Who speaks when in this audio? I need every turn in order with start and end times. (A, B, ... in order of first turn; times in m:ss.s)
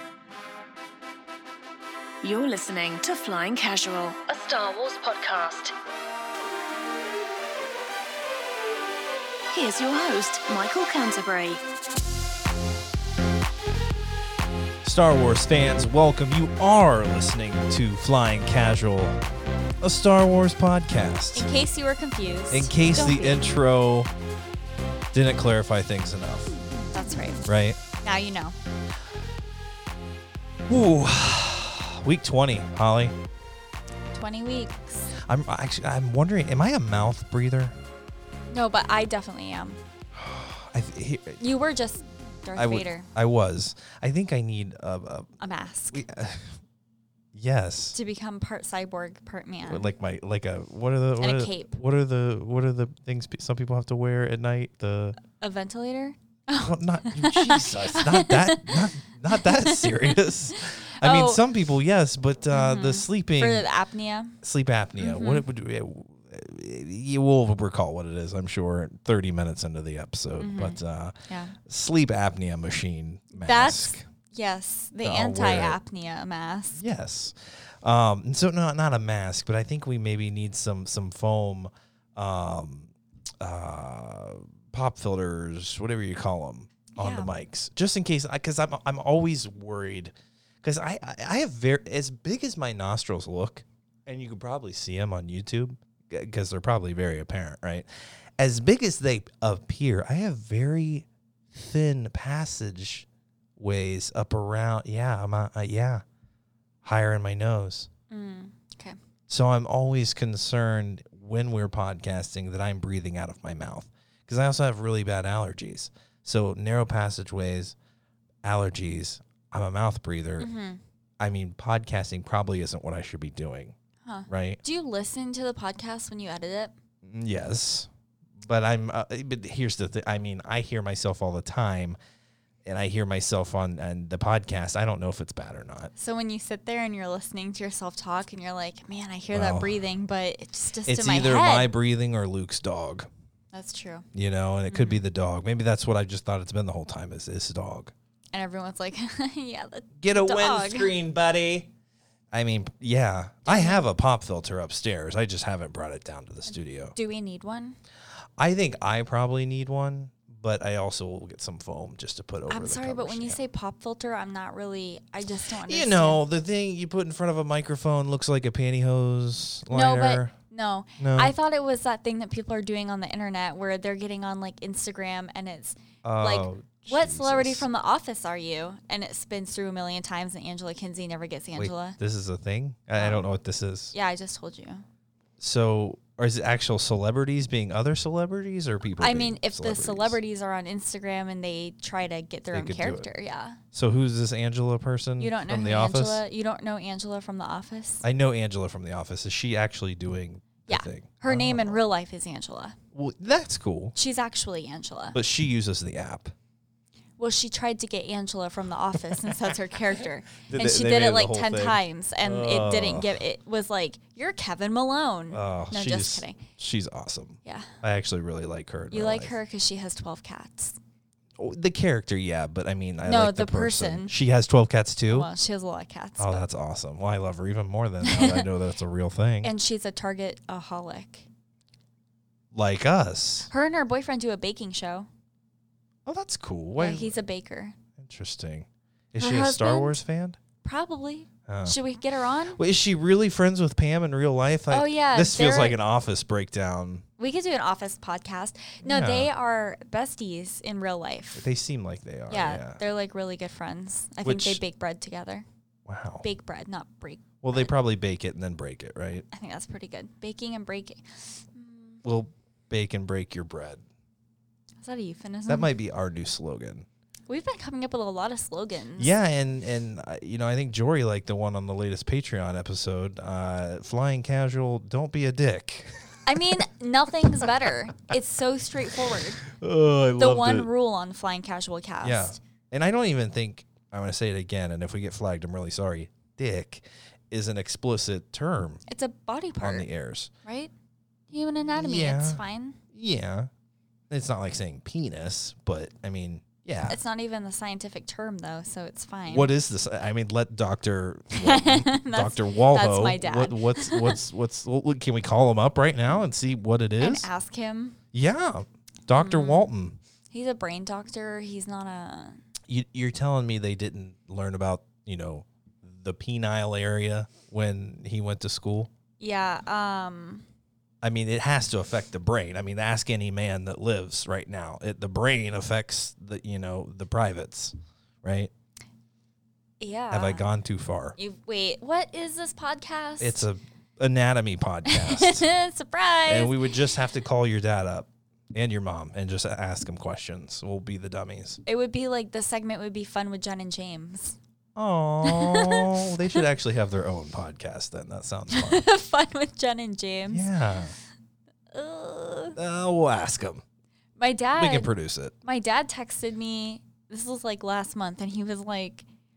0:02.2-0:05.7 A
0:09.5-0:11.6 A
0:14.8-0:19.2 B
0:19.8-0:21.5 B
0:21.3-0:23.5 C
0:22.5-0:24.1 B
0:25.1-0:26.5 B
0:26.9-0:28.5 C
0:27.4-0:27.8 B
0:30.7-0:33.1 B
0:34.1-0:35.1 C
0:35.2-0:37.7 B
0:38.5-0:39.8 C
0:40.1-0:41.4 B
0:41.4-0:43.1 C
0:42.6-0:45.3 B
0:45.4-0:46.0 C
0:45.9-0:46.6 B
0:47.3-0:48.0 B
0:47.9-0:49.9 C
0:49.6-0:55.2 B
0:51.2-0:51.8 C
0:55.3-1:01.4 C
0:56.6-1:03.6 B
1:02.5-1:04.4 C
1:04.4-1:14.1 B
1:05.0-1:05.4 C
1:10.4-1:11.5 C
1:13.3-1:16.8 C
1:15.0-1:15.8 B
1:16.8-1:37.9 B
1:27.0-1:27.3 C
1:38.4-1:43.0 B
1:43.6-1:46.0 B
1:46.8-1:47.9 B
1:48.1-1:49.0 C
1:49.3-1:57.8 B
1:58.4-2:00.5 B
2:00.4-2:00.8 C
2:01.2-2:03.7 B
2:04.0-2:06.7 C
2:04.3-2:04.6 B
2:07.0-2:07.9 B
2:08.4-2:12.0 B
2:12.6-2:15.9 B
2:16.0-2:21.7 C
2:19.3-2:19.8 B
2:20.8-2:23.1 B
2:23.5-2:24.0 C
2:24.1-2:27.9 B
2:24.7-2:25.0 C
2:28.3-2:30.9 C
2:30.0-2:31.7 B
2:32.3-2:36.9 B
2:33.5-2:33.8 C
2:36.9-2:37.8 C
2:38.4-2:43.4 B
2:42.5-2:46.2 C
2:45.6-2:50.3 B
2:49.7-3:02.0 C
2:51.0-2:51.3 B
2:56.0-2:57.6 B
3:01.6-3:03.9 B
3:03.0-3:03.2 C
3:03.9-3:04.8 C
3:05.4-3:10.2 B
3:09.0-3:13.6 C
3:12.5-3:13.1 B
3:13.7-3:16.2 B
3:15.2-3:18.0 C
3:18.0-3:21.8 B
3:20.7-3:22.8 C
3:22.9-3:23.9 B
3:23.9-3:25.2 C
3:25.1-3:26.3 B
3:27.2-3:36.4 C
3:29.1-3:29.4 B
3:30.4-3:33.2 B
3:35.3-3:39.4 B
3:37.4-3:37.7 C
3:38.9-3:40.8 C
3:41.4-3:45.3 B
3:43.0-3:44.1 C
3:45.1-3:46.4 C
3:46.2-3:49.5 B
3:48.0-3:48.5 C
3:49.4-3:51.3 C
3:52.5-3:53.5 B
3:53.5-3:55.1 C
3:56.0-3:57.2 B
3:56.8-3:57.8 C
3:58.0-4:00.4 B
3:59.2-4:00.0 C
4:00.6-4:02.6 C
4:01.5-4:01.8 B
4:02.5-4:07.0 B
4:04.7-4:05.8 C
4:07.2-4:11.4 C
4:08.8-4:09.3 B
4:11.4-4:12.8 B
4:12.3-4:15.4 C
4:14.2-4:14.6 B
4:15.9-4:16.2 B
4:16.2-4:17.7 C
4:17.4-4:19.2 B
4:19.3-4:22.0 C
4:22.0-4:23.8 B
4:24.8-4:25.7 C
4:25.5-4:26.9 B
4:27.3-4:29.2 C
4:29.0-4:36.6 B
4:36.2-4:39.4 C
4:38.9-4:40.7 B
4:40.2-4:42.4 C
4:42.0-4:48.8 B
4:48.9-4:49.9 C
4:49.6-4:50.3 B
4:50.4-4:50.7 C
4:51.3-4:52.8 C
4:51.8-4:52.4 B
4:52.9-4:53.5 B
4:54.1-4:57.0 B
4:56.8-4:59.5 C
4:59.3-5:07.3 B
5:01.3-5:04.2 C
5:07.0-5:08.0 C
5:08.1-5:10.0 B
5:09.1-5:09.7 C
5:10.3-5:12.4 C
5:12.7-5:18.9 B
5:19.2-5:20.4 C
5:21.0-5:28.5 B
5:29.8-5:30.4 C
5:30.1-5:31.2 B
5:31.2-5:33.4 C
5:33.2-5:35.5 B
5:34.9-5:36.6 C
5:36.2-5:41.6 B
5:41.6-5:44.4 C
5:44.8-5:48.8 B
5:45.2-5:46.4 C
5:48.5-5:50.5 C
5:50.3-5:50.9 B
5:51.7-5:52.6 C
5:52.6-5:53.6 B
5:54.2-5:54.9 C
5:54.6-5:55.3 B
5:55.4-5:59.0 C